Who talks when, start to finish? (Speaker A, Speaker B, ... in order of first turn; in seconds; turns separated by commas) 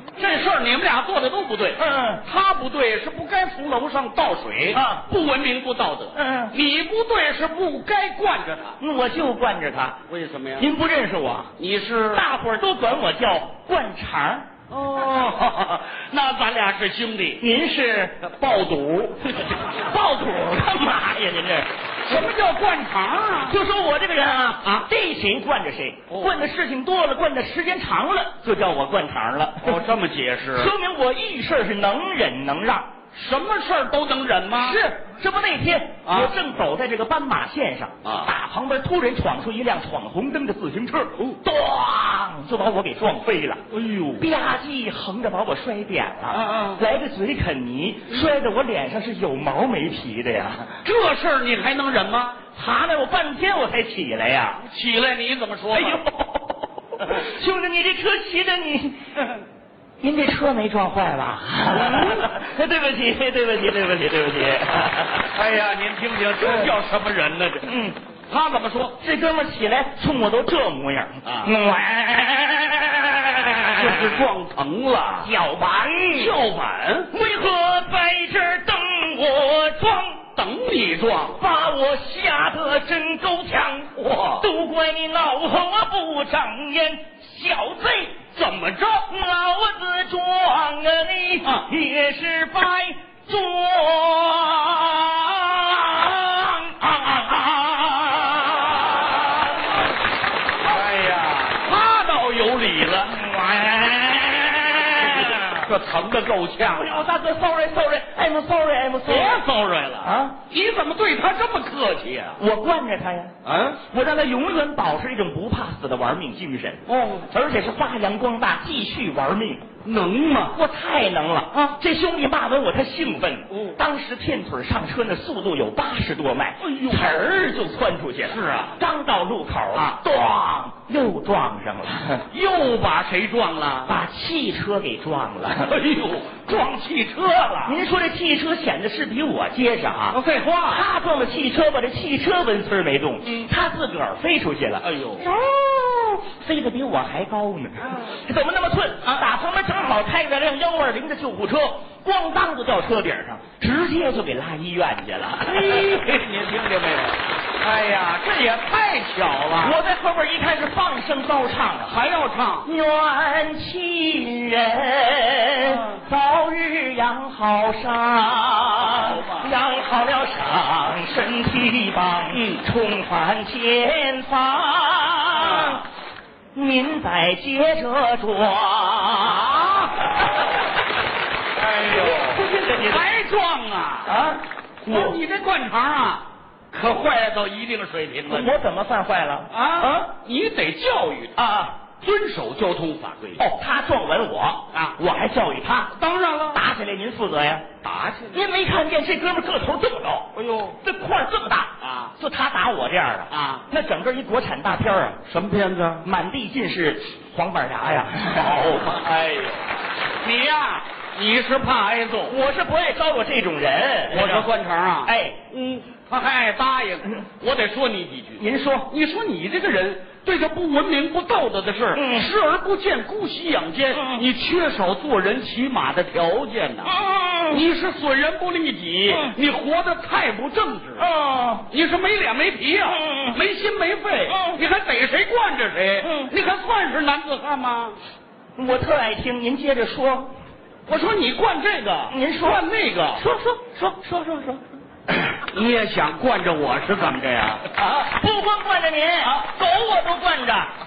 Speaker A: 0.2-8.8, Speaker B: 1.8-2.2, Speaker B: 4.7-5.0, Speaker B: 6.2-6.5, Speaker B: 8.8-10.0, Speaker A: 10.1-10.7, Speaker B: 10.6-11.5, Speaker A: 11.6-12.2, Speaker B: 12.1-14.5, Speaker A: 14.7-17.4, Speaker B: 17.4-18.2, Speaker A: 18.2-19.4, Speaker B: 19.4-21.7, Speaker A: 22.1-23.6, Speaker B: 23.4-29.8, Speaker A: 24.6-24.9, Speaker A: 26.1-26.4, Speaker A: 29.6-30.7, Speaker B: 30.5-32.9, Speaker A: 33.1-34.8, Speaker B: 34.5-43.6, Speaker A: 36.1-36.3, Speaker A: 38.0-38.3, Speaker A: 43.7-44.3, Speaker B: 44.2-50.8, Speaker A: 46.3-46.8, Speaker A: 50.8-52.4, Speaker B: 52.5-54.6, Speaker A: 54.6-56.0, Speaker B: 55.7-56.4, Speaker B: 57.0-59.0, Speaker B: 60.0-65.3, Speaker A: 61.7-62.3, Speaker A: 65.3-67.7, Speaker B: 67.7-68.0, Speaker A: 68.3-69.0, Speaker B: 69.0-74.2, Speaker A: 71.2-71.5, Speaker A: 73.8-75.3, Speaker B: 75.2-76.4, Speaker A: 76.1-77.1, Speaker B: 77.1-80.2, Speaker A: 80.4-81.4, Speaker B: 81.3-88.2, Speaker A: 84.0-84.5, Speaker A: 88.3-89.1, Speaker B: 89.1-99.5, Speaker A: 100.6-103.2, Speaker B: 103.1-105.7, Speaker A: 104.9-107.1, Speaker B: 106.7-109.4, Speaker A: 109.0-112.4, Speaker B: 110.0-110.4, Speaker B: 112.4-113.3, Speaker A: 113.4-113.8, Speaker B: 113.9-119.7, Speaker A: 116.9-117.3, Speaker A: 119.8-120.6, Speaker B: 120.5-132.2, Speaker A: 126.6-127.1, Speaker A: 128.2-128.8, Speaker A: 129.7-130.0, Speaker A: 132.3-133.9, Speaker B: 133.9-135.7, Speaker A: 135.6-137.8, Speaker B: 137.7-155.9, Speaker A: 140.1-140.8, Speaker A: 144.8-145.3, Speaker A: 155.4-159.8, Speaker B: 159.6-162.0, Speaker A: 161.9-162.7, Speaker B: 162.7-175.8, Speaker A: 168.8-169.5, Speaker A: 172.3-172.7, Speaker A: 175.3-175.8, Speaker B: 176.6-179.4, Speaker A: 179.2-180.2, Speaker A: 181.6-184.1, Speaker B: 181.7-183.1, Speaker B: 184.1-185.2, Speaker A: 184.8-188.5, Speaker B: 188.3-190.1, Speaker A: 189.5-191.4, Speaker B: 191.4-191.8, Speaker A: 192.0-193.4, Speaker B: 193.4-195.9, Speaker A: 194.7-195.0, Speaker A: 195.9-196.6, Speaker B: 196.5-197.7, Speaker A: 197.8-198.5, Speaker B: 198.3-200.3, Speaker A: 200.3-200.8, Speaker B: 200.8-205.2, Speaker A: 201.8-202.1, Speaker A: 203.3-203.7, Speaker A: 205.3-206.1, Speaker B: 206.0-208.7, Speaker A: 208.3-209.7, Speaker A: 210.2-212.4, Speaker B: 212.3-214.5, Speaker A: 214.1-226.9, Speaker B: 215.1-215.4, Speaker B: 218.4-218.9, Speaker B: 221.9-222.3, Speaker B: 223.9-224.2, Speaker B: 226.8-227.6, Speaker A: 227.5-231.1, Speaker B: 231.0-231.7, Speaker A: 231.7-238.0, Speaker B: 232.9-233.4, Speaker B: 234.3-234.6, Speaker B: 236.0-236.3, Speaker B: 238.6-240.3, Speaker A: 240.9-243.3, Speaker B: 242.1-244.6, Speaker A: 245.1-247.8, Speaker B: 247.8-250.7